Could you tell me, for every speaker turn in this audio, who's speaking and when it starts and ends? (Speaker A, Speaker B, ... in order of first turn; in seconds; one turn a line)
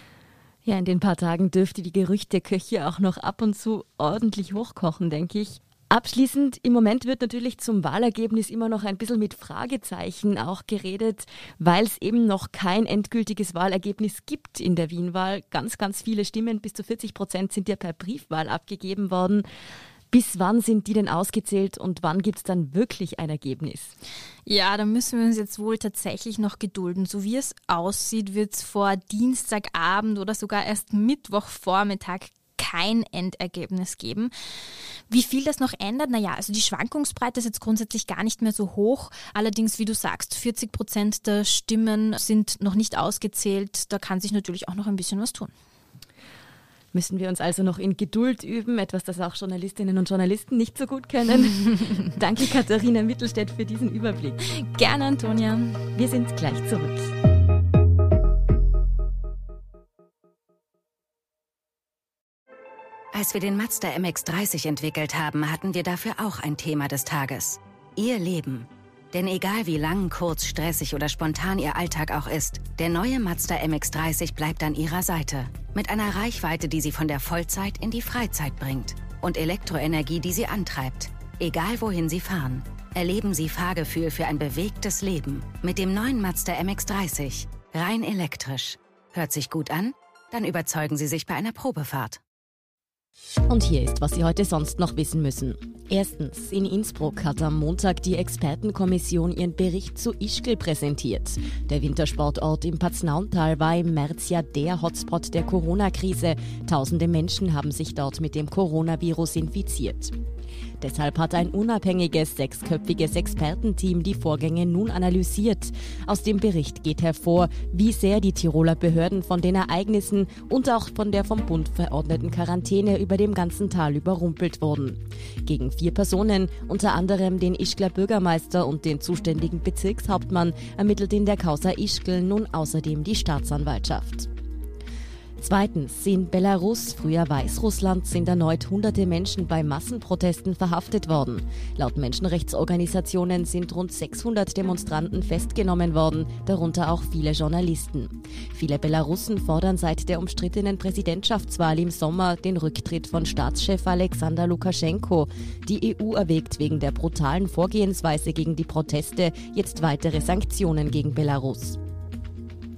Speaker A: 0.6-19.4
Speaker A: 20.1-23.9
Speaker B: 24.4-34.3
Speaker B: 35.1-45.5
Speaker A: 46.9-54.4
Speaker B: 54.6-55.9
Speaker A: 55.9-57.1
Speaker C: 63.1-92.2
Speaker A: 93.5-110.1
Speaker A: 110.8-134.3
Speaker A: 135.4-161.8